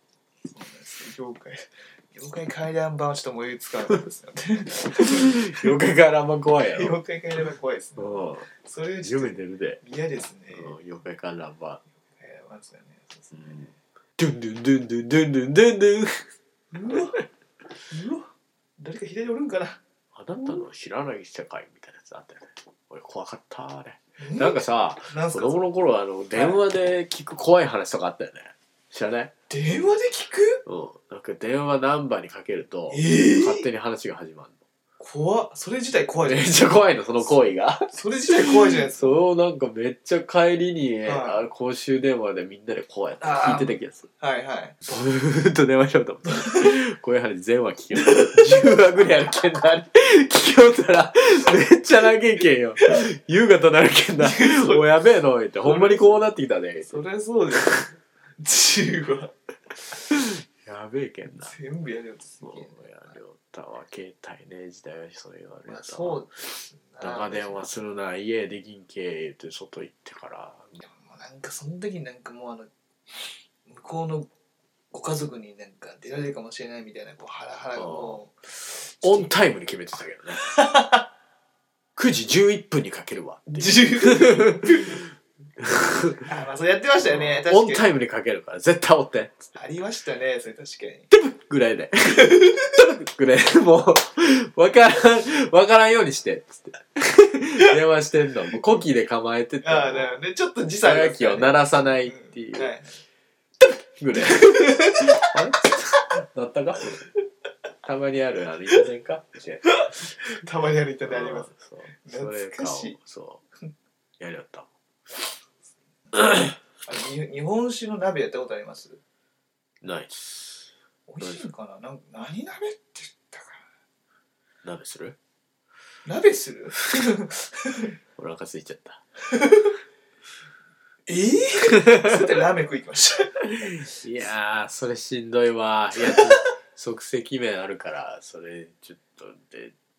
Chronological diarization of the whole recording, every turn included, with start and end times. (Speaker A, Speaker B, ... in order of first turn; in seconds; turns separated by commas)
Speaker A: 0.5-5.7, Speaker B: 5.1-7.0, Speaker A: 6.7-10.7, Speaker B: 8.0-8.5, Speaker B: 9.0-9.8, Speaker B: 10.5-11.8, Speaker A: 12.2-13.7, Speaker B: 14.2-16.3, Speaker A: 16.7-17.2, Speaker A: 17.9-19.8, Speaker B: 20.1-29.3, Speaker A: 24.2-25.6, Speaker A: 26.3-26.6, Speaker A: 29.5-30.6, Speaker B: 30.6-34.5, Speaker A: 32.9-33.6, Speaker A: 35.0-37.3, Speaker B: 36.2-44.1, Speaker A: 37.9-39.2, Speaker A: 41.0-41.4, Speaker A: 43.2-44.8, Speaker B: 44.8-56.9, Speaker A: 48.2-48.7, Speaker A: 54.2-54.8, Speaker A: 55.6-56.2, Speaker A: 56.8-59.3, Speaker B: 60.1-61.5, Speaker A: 61.4-62.9, Speaker B: 62.4-66.2, Speaker A: 65.7-67.7, Speaker B: 67.0-70.8, Speaker A: 70.8-74.3, Speaker A: 74.9-79.3, Speaker B: 77.8-78.1, Speaker B: 79.0-80.5, Speaker A: 80.4-81.0, Speaker B: 82.0-85.0, Speaker A: 83.5-85.0, Speaker B: 85.6-86.3, Speaker A: 86.2-87.9, Speaker B: 87.1-89.5, Speaker A: 89.5-91.1, Speaker B: 91.1-100.2, Speaker A: 92.2-92.6, Speaker A: 99.6-103.0, Speaker B: 100.8-102.7, Speaker B: 104.0-107.1, Speaker A: 104.2-105.2, Speaker B: 107.8-109.8, Speaker A: 109.8-111.5, Speaker B: 111.0-113.4, Speaker A: 112.0-113.0, Speaker B: 114.2-114.7, Speaker B: 116.1-116.5, Speaker A: 116.8-119.0, Speaker B: 119.8-120.7, Speaker A: 121.1-123.6, Speaker B: 124.6-125.2, Speaker A: 126.0-128.0, Speaker B: 128.2-129.0, Speaker A: 129.3-129.7, Speaker A: 131.1-133.8, Speaker B: 133.8-139.7